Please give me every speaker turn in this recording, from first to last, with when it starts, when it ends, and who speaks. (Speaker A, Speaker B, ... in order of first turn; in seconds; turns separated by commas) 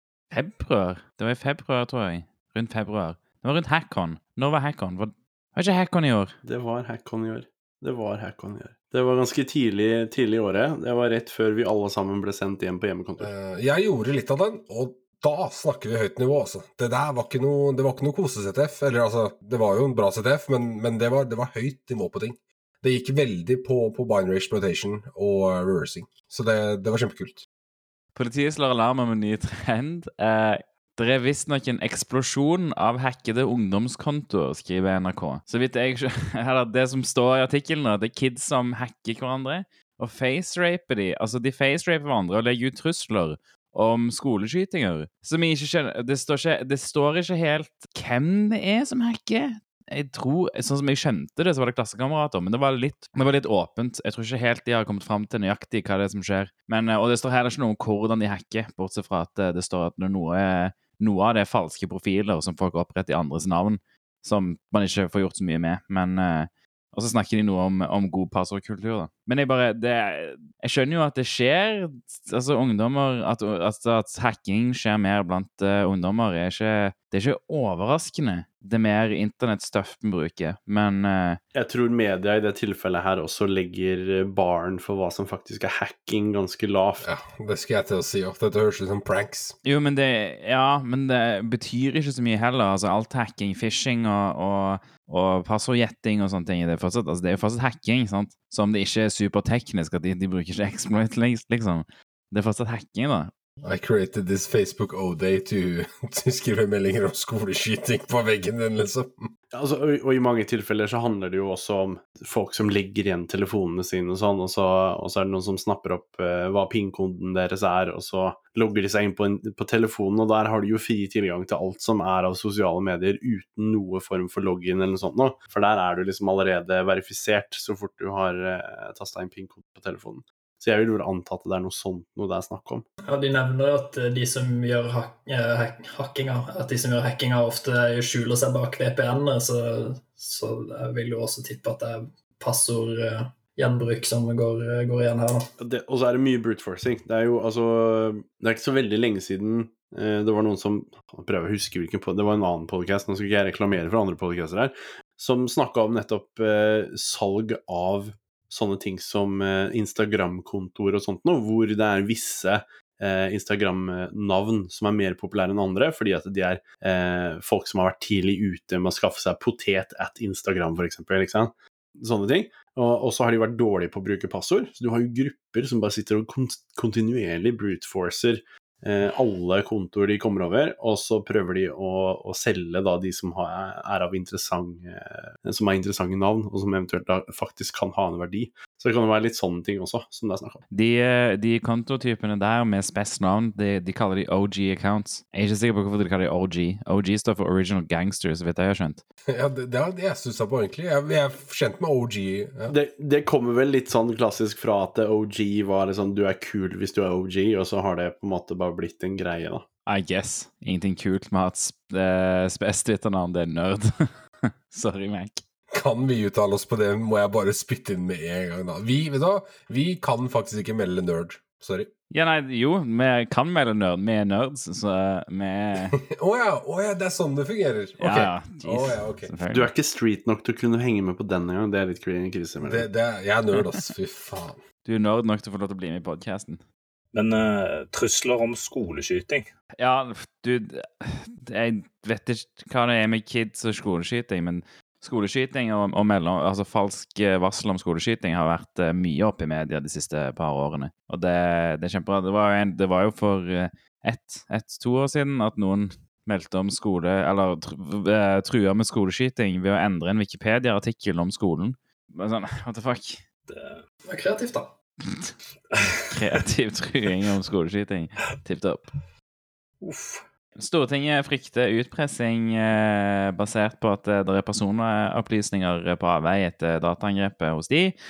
Speaker A: 0.3-6.3, Speaker B: 6.4-13.3, Speaker C: 13.2-27.4, Speaker A: 28.1-81.4, Speaker B: 81.5-87.1, Speaker C: 87.0-89.5, Speaker A: 89.6-103.3, Speaker C: 103.6-109.3, Speaker B: 109.5-132.9, Speaker D: 133.0-145.5, Speaker B: 145.6-190.6, Speaker A: 190.7-199.0, Speaker C: 199.3-202.7, Speaker B: 202.7-209.7, Speaker A: 209.8-215.4, Speaker C: 215.7-221.9, Speaker A: 222.1-226.0, Speaker C: 226.0-229.3, Speaker A: 228.0-229.7, Speaker B: 229.5-232.9, Speaker C: 232.6-234.6, Speaker A: 234.8-236.6, Speaker E: 237.1-239.5, Speaker A: 239.8-263.2, Speaker E: 263.5-263.8, Speaker D: 264.1-264.7, Speaker A: 266.1-268.9, Speaker E: 269.8-270.2, Speaker A: 270.6-277.9